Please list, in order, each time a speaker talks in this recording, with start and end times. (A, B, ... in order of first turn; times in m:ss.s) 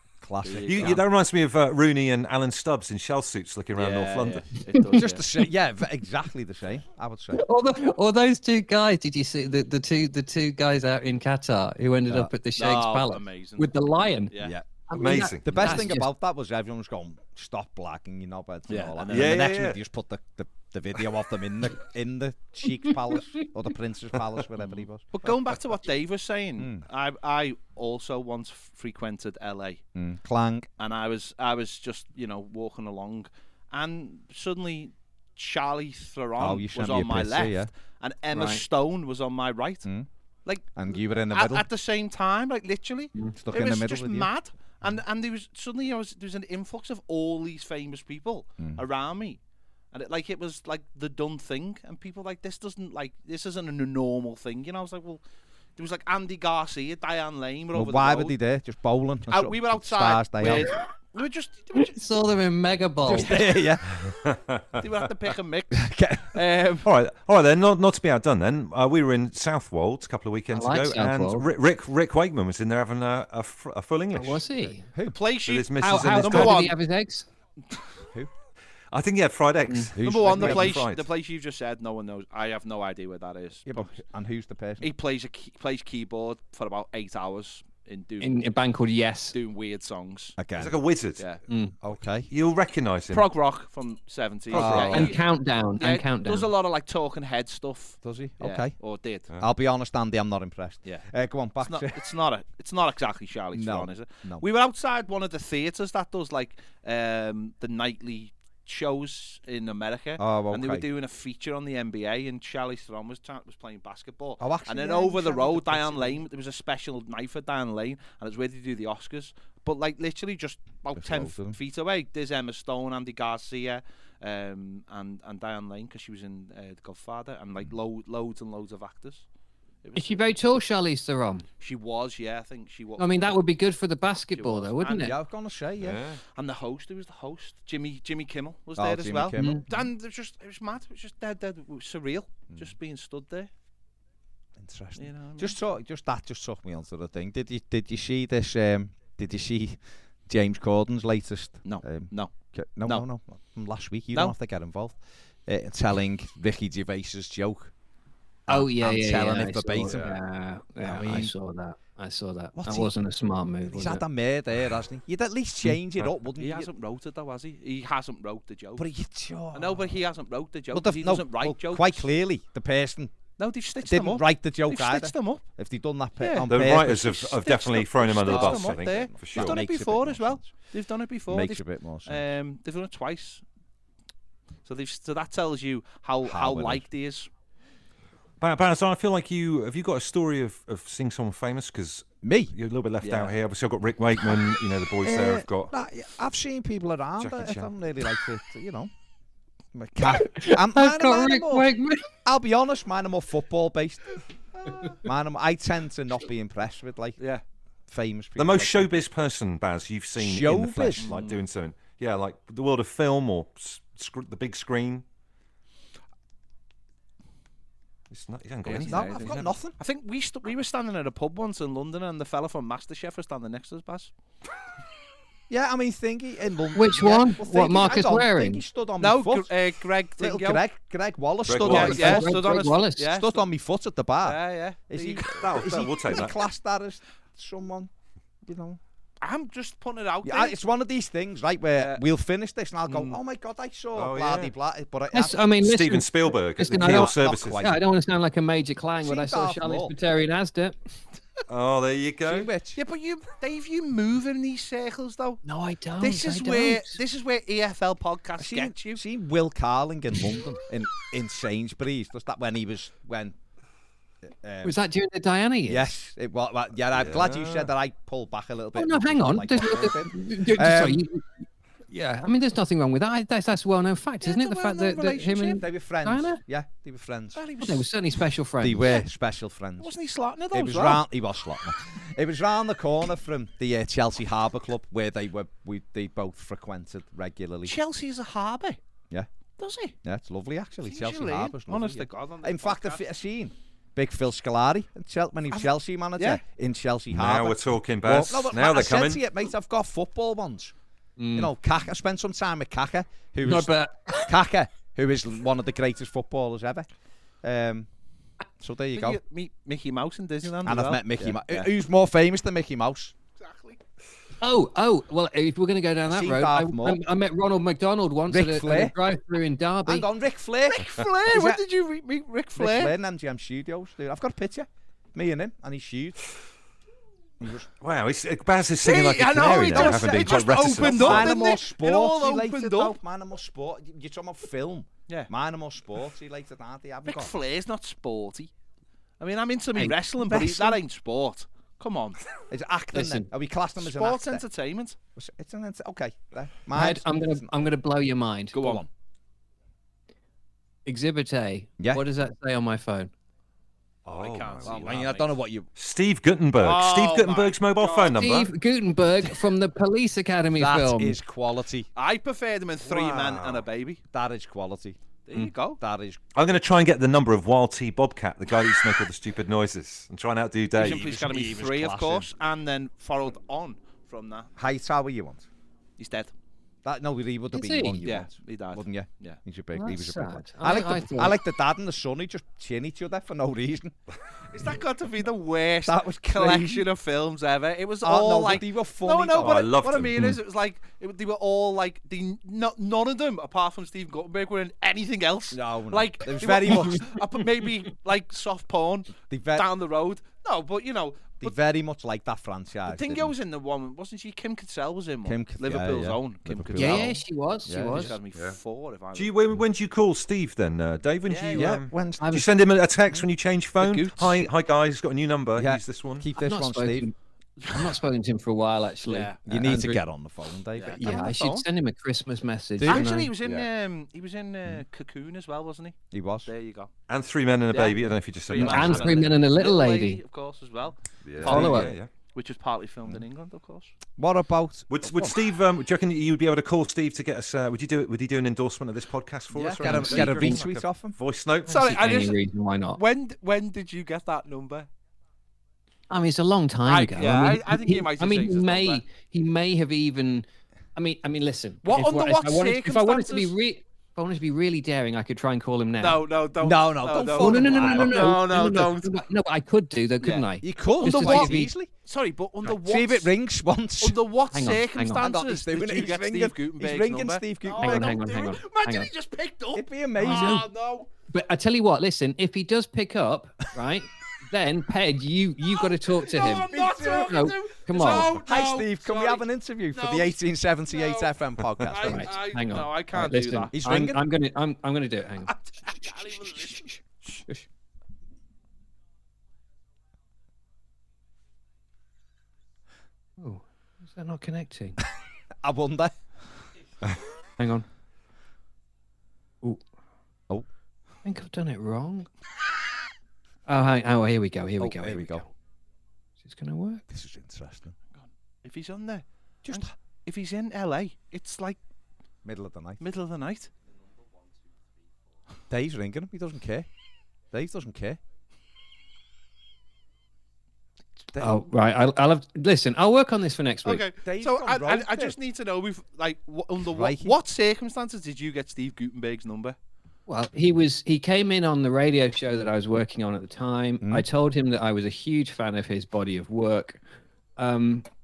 0:00.2-0:01.0 A
0:00.4-0:01.0 B
0:00.6-0:04.4 C
0:03.8-0:05.2 B
0:04.7-0:05.0 D
0:04.9-0:07.4 A
0:07.3-0:16.1 D
0:12.6-0:13.8 B
0:14.4-0:14.6 A
0:14.9-0:15.8 C
0:15.4-0:25.3 A
0:18.7-0:19.4 B
0:19.1-0:19.8 C
0:25.1-0:29.8 B
0:26.6-0:26.8 A
0:30.0-0:30.7 A
0:30.8-0:39.9 B
0:36.4-0:37.7 A
0:38.3-0:38.6 D
0:40.4-0:49.4 B
0:40.7-0:41.7 A
0:43.4-0:44.3 A
0:49.9-0:55.2 B
0:55.8-0:58.4 B
0:57.7-1:00.7 A
0:59.3-1:02.0 B
1:01.8-1:03.4 D
1:03.0-1:04.1 A
1:03.2-1:03.5 B
1:04.1-1:04.6 C
1:04.8-1:06.9 B
1:05.7-1:06.4 A
1:06.8-1:14.5 C
1:10.5-1:11.4 D
1:14.1-1:14.9 D
1:14.8-1:15.2 A
1:15.1-1:16.8 B
1:15.4-1:16.7 C
1:15.8-1:17.3 D
1:18.9-1:21.0 C
1:20.0-1:20.8 A
1:20.0-1:23.9 B
1:23.7-1:24.9 A
1:24.8-1:28.4 B
1:28.2-1:29.4 D
1:29.3-1:30.4 B
1:30.4-1:30.8 A
1:30.6-1:31.3 C
1:31.5-1:31.7 D
1:31.8-1:32.3 A
1:32.3-1:33.2 C
1:33.1-1:35.2 B
1:34.5-1:35.1 C
1:34.5-1:35.2 A
1:34.6-1:36.5 D
1:35.8-1:39.3 B
1:38.0-1:38.7 A
1:39.4-1:42.0 A
1:41.6-2:09.3 B
1:43.5-1:44.4 A
1:50.2-1:50.9 A
1:54.4-1:56.2 A
2:01.0-2:01.6 A
2:09.8-2:10.2 B
2:10.0-2:11.4 D
2:11.6-2:13.4 B
2:13.0-2:15.1 D
2:14.3-2:15.1 B
2:15.0-2:16.0 A
2:15.8-2:16.2 C
2:16.3-2:23.5 B
2:18.8-2:19.8 A
2:19.4-2:19.7 D
2:24.6-2:37.7 A
2:25.0-2:25.6 B
2:31.6-2:32.3 B
2:38.5-2:40.2 A
2:38.5-2:44.0 D
2:39.9-2:40.2 C
2:40.8-2:41.3 A
2:42.6-2:42.9 A
2:43.6-2:46.7 A
2:46.4-2:48.9 B
2:48.8-2:50.0 A
2:49.5-2:52.1 B
2:50.7-2:53.1 A
2:53.4-2:55.4 B
2:53.8-3:00.5 A
2:56.2-2:56.5 B
2:56.5-2:59.6 C
2:57.4-3:03.4 B
3:01.3-3:02.2 A
3:04.6-3:07.3 B
3:06.2-3:06.8 A
3:08.4-3:15.7 C
3:12.2-3:12.5 A
3:13.0-3:13.4 B
3:15.0-3:18.9 A
3:17.2-3:17.7 C
3:19.7-3:24.2 A
3:20.0-3:22.1 D
3:24.9-3:27.2 A
3:27.9-3:29.0 A
3:28.4-3:35.0 C
3:30.2-3:31.1 A
3:31.0-3:31.4 B
3:38.1-3:39.5 C
3:38.6-3:44.1 B
3:38.9-3:39.8 A
3:45.5-3:49.5 A
3:46.8-3:48.6 D
3:49.0-3:50.6 B
3:50.2-3:52.4 A
3:51.4-3:52.2 C
3:51.6-3:53.4 B
3:51.6-3:53.1 D
3:53.0-3:57.9 A
3:54.2-3:55.6 B
3:55.3-3:56.4 C
3:58.4-3:58.8 A
3:59.2-4:00.6 B
4:00.2-4:05.4 A
4:02.9-4:03.2 B
4:04.0-4:04.5 C
4:05.1-4:10.8 D
4:05.6-4:07.7 C
4:06.8-4:07.8 A
4:09.0-4:10.0 A
4:11.5-4:12.5 C
4:12.2-4:12.8 A
4:12.8-4:15.4 B
4:15.4-4:17.0 D
4:16.0-4:19.0 B
4:18.4-4:23.4 A
4:24.2-4:24.8 A
4:24.6-4:26.0 D
4:25.7-4:31.0 A
4:26.9-4:27.7 C
4:28.8-4:31.3 D
4:31.9-4:36.4 D
4:34.2-4:35.6 B
4:35.6-4:37.4 A
4:37.4-4:37.9 B
4:37.6-4:39.0 D
4:38.6-4:40.0 A
4:39.8-4:41.0 B
4:40.5-4:47.8 A
4:47.7-4:48.8 B
4:49.6-4:50.0 B
4:50.0-5:00.8 A
4:50.8-4:53.0 B
4:55.5-4:56.4 B
4:57.1-4:59.2 C
5:01.2-5:01.5 D
5:01.3-5:03.7 A
5:03.4-5:04.4 D
5:04.3-5:06.9 A
5:07.4-5:07.9 A
5:08.6-5:09.2 A
5:08.9-5:11.7 B
5:10.6-5:13.1 A
5:13.4-5:13.8 B
5:14.4-5:20.1 D
5:16.1-5:17.0 A
5:18.3-5:19.0 A
5:19.9-5:21.6 A
5:20.7-5:22.9 B
5:22.6-5:26.2 A
5:27.4-5:27.7 A
5:27.8-5:31.3 C
5:28.8-5:33.0 B
5:29.8-5:37.4 A
5:37.1-5:38.5 B
5:39.2-5:42.2 B
5:40.2-5:40.8 A
5:42.5-5:44.4 A
5:42.9-5:43.3 D
5:43.8-5:45.0 B
5:45.2-5:47.5 A
5:46.7-5:48.8 D
5:48.5-5:48.9 B
5:48.6-5:48.8 A
5:50.9-5:53.1 D
5:54.1-5:55.0 C
5:54.1-5:55.3 B
5:54.6-5:55.7 A
5:55.8-5:58.5 C
5:56.6-5:58.2 B
5:58.1-6:01.2 D
6:00.6-6:01.9 A
6:02.0-6:04.0 B
6:02.9-6:03.6 C
6:04.1-6:05.0 A
6:05.3-6:05.8 B
6:05.8-6:06.2 A
6:06.4-6:11.1 C
6:10.8-6:14.5 B
6:10.9-6:12.3 A
6:14.6-6:15.5 A
6:16.0-6:16.3 B
6:16.8-6:24.0 A
6:17.5-6:18.0 D
6:18.0-6:19.4 B
6:19.8-6:21.4 D
6:24.5-6:41.6 B
6:25.9-6:26.9 A
6:28.0-6:29.7 A
6:29.4-6:30.3 C
6:35.5-6:37.1 A
6:39.2-6:39.7 A
6:41.4-6:43.3 A
6:42.9-6:47.1 B
6:45.2-6:48.1 A
6:46.7-6:48.2 D
6:47.8-6:49.4 B
6:49.1-6:56.3 C
6:51.3-6:51.8 B
6:51.6-6:52.3 A
6:52.2-6:52.4 D
6:53.8-6:54.5 B
6:55.6-6:57.1 A
6:56.4-7:00.0 D
6:59.1-6:59.4 B
6:59.4-7:01.2 A
7:00.8-7:01.6 B
7:00.9-7:03.3 D
7:02.8-7:03.1 A
7:02.9-7:06.9 B
7:06.1-7:06.5 A
7:07.1-7:09.3 C
7:07.7-7:14.0 B
7:08.6-7:10.2 D
7:11.3-7:12.1 C
7:11.4-7:11.8 A
7:11.4-7:12.0 D
7:14.2-7:15.4 A
7:14.9-7:21.7 C
7:19.6-7:20.4 B
7:19.6-7:21.2 A
7:19.9-7:20.6 D
7:21.7-7:22.4 B
7:21.7-7:23.0 D
7:23.0-7:24.9 B
7:26.1-7:36.2 D
7:26.9-7:29.0 B
7:31.8-7:33.5 B
7:36.0-7:39.2 B
7:36.6-7:38.4 A
7:37.4-7:41.7 D
7:40.2-7:40.4 B
7:40.6-7:41.9 A
7:41.0-7:43.3 B
7:42.6-7:44.2 A
7:44.0-7:51.1 B
7:44.5-7:45.2 D
7:45.2-7:48.2 A
7:47.8-7:49.1 D
7:49.8-7:50.6 A
7:50.2-7:50.7 D
7:51.3-7:58.4 D
7:55.7-8:00.3 B
7:56.5-7:57.5 A
7:58.0-8:02.3 A
8:00.9-8:01.3 B
8:01.9-8:03.7 B
8:01.9-8:07.7 D
8:03.7-8:04.2 A
8:05.5-8:07.4 B
8:13.4-8:15.0 D
8:15.6-8:16.2 A
8:17.6-8:17.9 D
8:21.2-8:22.3 D
8:23.7-8:25.5 D
8:24.8-8:25.4 A
8:26.4-8:27.0 D
8:27.1-8:28.0 A
8:28.2-8:31.8 B
8:29.6-8:29.9 A
8:32.4-8:33.0 A
8:33.0-8:33.7 B
8:35.7-8:36.9 A
8:37.5-8:38.2 A
8:41.4-8:44.0 D
8:43.8-8:49.8 B
8:44.2-8:45.4 A
8:46.8-8:47.4 A
8:50.3-8:57.0 D
8:57.6-8:58.1 D